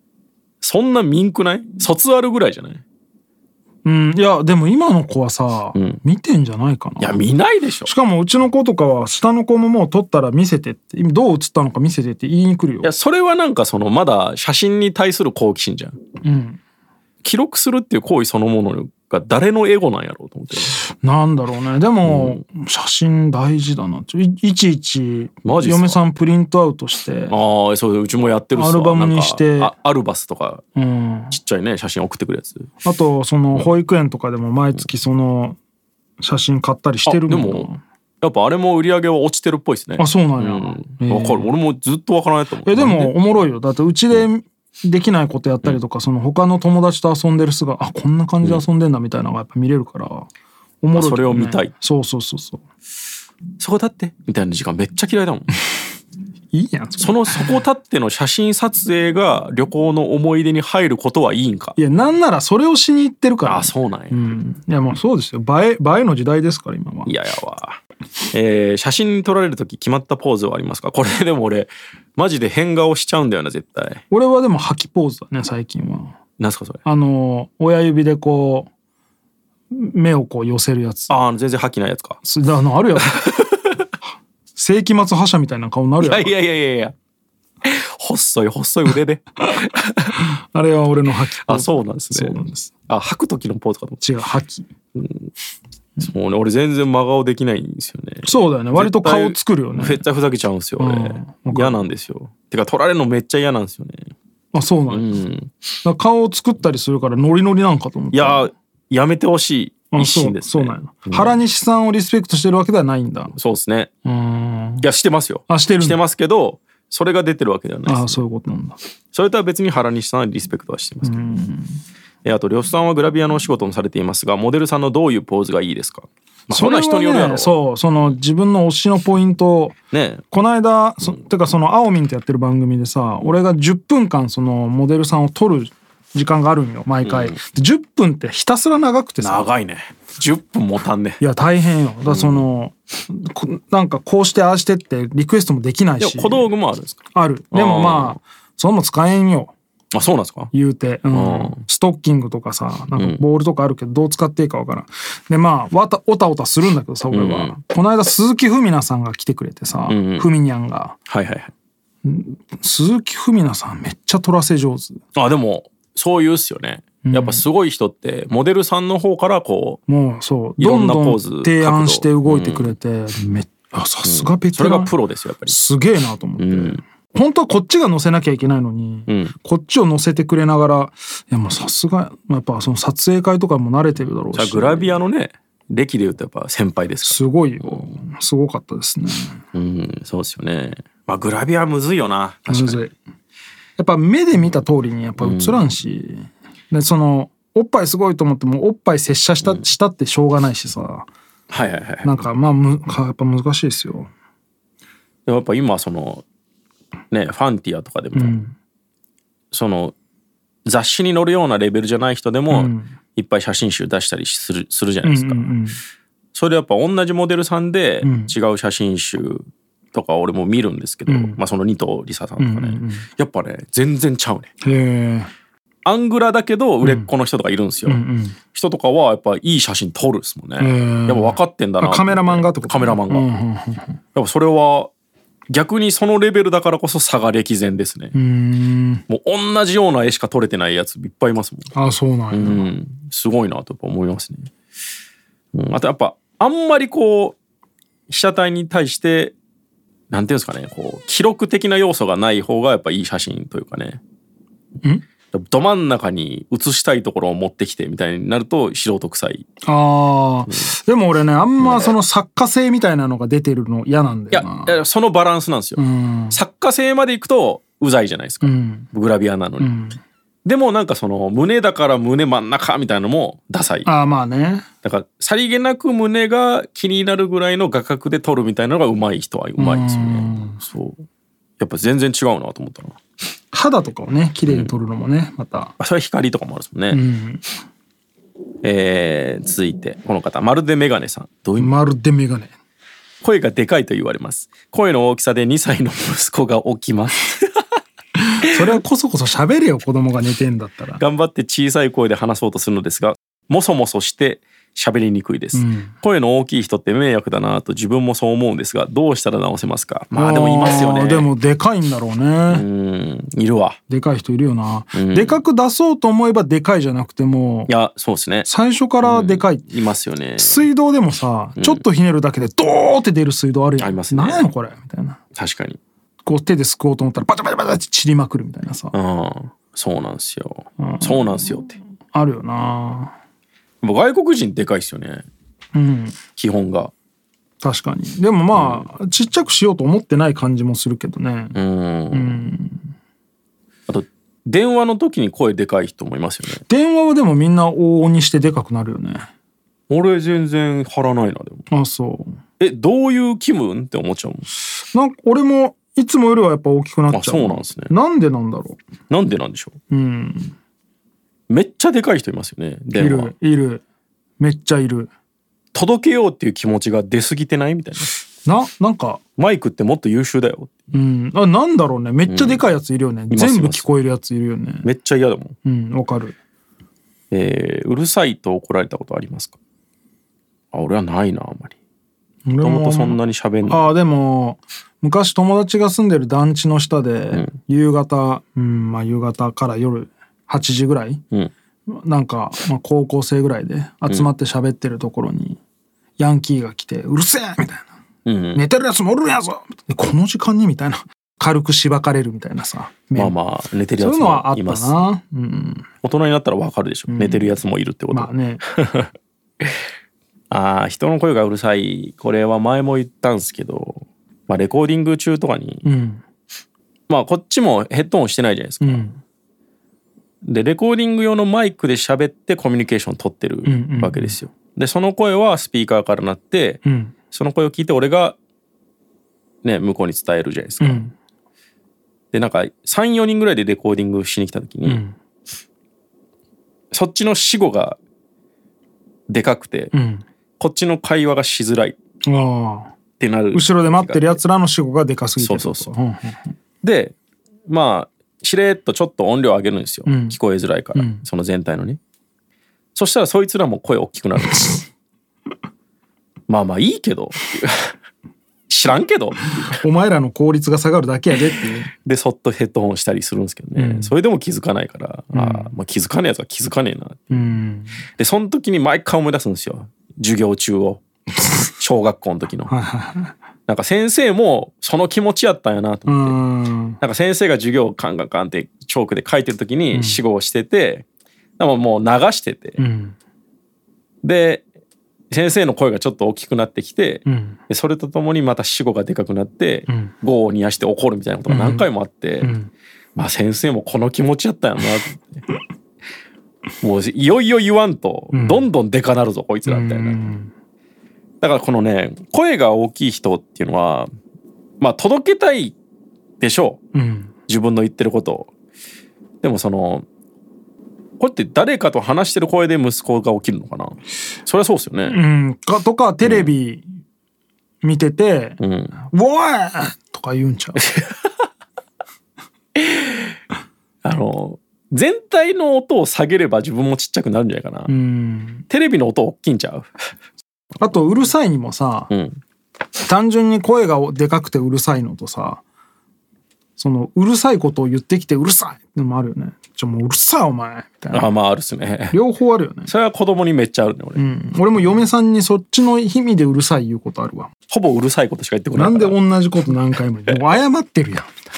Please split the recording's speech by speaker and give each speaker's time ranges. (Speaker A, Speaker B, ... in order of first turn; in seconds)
Speaker A: 0.6-2.8, 5.7-6.0, 7.0-7.9, 12.8-16.0, 17.2-20.7, 22.0-22.4, 25.4-26.0, 27.3-30.6, 31.3-32.7, 37.0-37.7, 38.2-43.1, 51.0-51.7, 53.6-55.5, 57.0-61.8, 63.4-64.2, 67.0-67.8, 68.3-74.0, 76.4-76.8, 81.1-82.2, 83.1-83.5, 86.0-86.9, 87.6-90.1, 91.4-94.0, 95.0-95.3, 96.0-104.1, 104.9-105.5, 108.1-111.4, 113.3-113.9, 114.8-118.2, 119.1-121.3, 122.2-127.5, 129.9-130.2, 137.0-137.4, 139.2-141.2, 142.1-142.5, 146.0-147.0, 147.5-148.2, 149.9-150.5, 151.1-151.6, 152.9-153.2, 157.1-157.6, 159.9-160.3, 161.1-161.5, 165.1-169.8, 170.6-172.7, 174.0-175.5, 176.4-176.8, 179.1-179.3, 184.3-187.9, 189.5-192.8, 195.2-195.7, 201.5-202.2, 205.2-206.2, 207.1-208.4, 209.5-209.9, 210.7-215.5, 216.3-224.5, 225.8-228.0, 228.5-233.3, 234.1-234.9, 235.5-238.1, 239.1-241.7, 242.3-244.5, 245.5-247.4, 248.1-249.3, 250.1-254.0, 255.3-259.4, 261.6-261.9, 264.3-269.7, 270.4-273.9, 274.8-281.0, 281.6-283.0, 284.4-284.7, 285.8-287.0, 288.6-291.7, 293.2-297.6, 301.0-311.3, 312.5-313.8, 314.9-315.4, 317.7-318.5, 319.0-320.6, 321.6-321.8, 323.8-324.5, 325.3-325.8, 328.9-331.8, 333.8-335.2, 336.4-336.9, 338.5-338.9, 341.5-342.5, 343.9-346.6, 349.9-351.6, 352.6-354.5, 357.1-357.9, 359.1-359.8, 361.5-363.3, 365.7-368.1, 369.4-370.9, 372.3-372.6, 373.3-373.9, 374.8-375.5, 377.3-379.6, 380.7-381.7, 382.6-383.9, 398.2-398.6, 403.1-405.0, 406.0-409.1, 410.5-415.9, 417.1-419.1, 420.4-426.8, 427.3-428.4, 429.6-431.0, 432.3-435.0, 436.9-438.0, 439.3-439.9, 440.6-441.9, 443.2-444.4, 445.4-445.9, 446.8-447.1, 447.7-452.0, 452.9-454.8, 456.5-457.9, 458.7-459.6, 462.0-467.5, 468.2-471.0, 471.8-472.7, 473.7-476.4, 477.0-481.0, 481.6-482.8, 484.2-484.6, 485.3-492.5, 493.1-495.4, 496.8-500.2, 501.4-504.1, 504.8-505.7, 506.4-506.8, 507.5-508.5, 509.4-510.0, 511.2-515.2, 516.2-516.5, 518.6-519.0, 520.8-521.3, 522.8-523.3, 524.0-527.9, 528.7-529.9, 532.1-532.4, 541.1-542.2, 542.9-544.2, 547.7-549.2
Speaker B: 3.8-7.2, 7.8-12.9, 16.2-16.6, 20.7-27.4, 28.5-29.7, 30.8-31.4, 32.8-35.6, 36.2-37.8, 40.0-41.5, 42.6-50.3, 50.8-52.6, 56.5-57.6, 61.8-67.1, 74.1-76.1, 76.8-78.7, 79.7-81.2, 82.2-83.4, 84.5-86.3, 90.1-92.7, 94.0-94.7, 98.2-100.0, 100.8-101.8, 104.5-105.2, 105.8-108.5, 109.9-113.3, 114.0-114.8, 115.5-116.0, 117.8-118.8, 121.0-121.8, 126.5-129.8, 130.3-139.5, 141.2-146.5, 147.1-149.5, 150.5-161.0, 162.0-165.0, 167.0-167.4, 169.9-174.9, 175.5-185.0, 187.0-189.4, 192.5-192.9, 193.8-201.1, 202.0-204.1, 208.1-208.5, 212.5-212.9, 215.0-215.8, 218.0-218.3, 221.1-221.4, 222.4-223.1, 224.6-225.3, 226.8-227.1, 227.9-228.4, 230.6-234.0, 238.1-239.0, 241.7-242.7, 259.6-264.8, 265.8-266.4, 268.4-268.9, 269.6-270.0, 273.8-274.6, 279.6-280.6, 283.5-285.7, 286.9-287.5, 291.6-292.5, 298.4-301.0, 305.5-305.9, 310.1-312.6, 313.9-317.7, 318.4-319.6, 320.4-325.2, 326.2-328.9, 330.8-333.1, 335.7-336.2, 337.6-341.6, 342.1-342.9, 346.6-349.3, 351.7-352.4, 354.9-358.8, 359.9-360.5, 362.9-363.8, 364.4-365.1, 368.4-369.2, 370.9-374.9, 375.6-376.3, 382.4-391.2, 391.9-395.6, 396.2-397.9, 398.5-403.4, 404.0-405.9, 407.1-407.6, 408.1-408.6, 415.8-416.2, 418.8-419.2, 423.6-424.4, 426.8-427.1, 430.8-431.1, 434.8-435.1, 439.9-440.2, 442.2-442.9, 443.5-446.5, 450.1-450.4, 450.9-451.2, 459.6-461.9, 463.8-464.1, 465.3-465.7, 467.3-468.0, 472.7-473.3, 476.1-477.0, 479.9-480.2, 482.8-483.1, 487.2-487.6, 489.9-490.1, 491.5-491.9, 492.4-492.7, 498.3-498.7, 499.7-500.5, 506.9-507.3, 515.0-516.9, 517.8-520.9, 527.9-528.6, 530.8-532.1, 533.0-535.6, 536.8-541.3, 542.1-542.9, 544.1-547.5, 548.7-551.3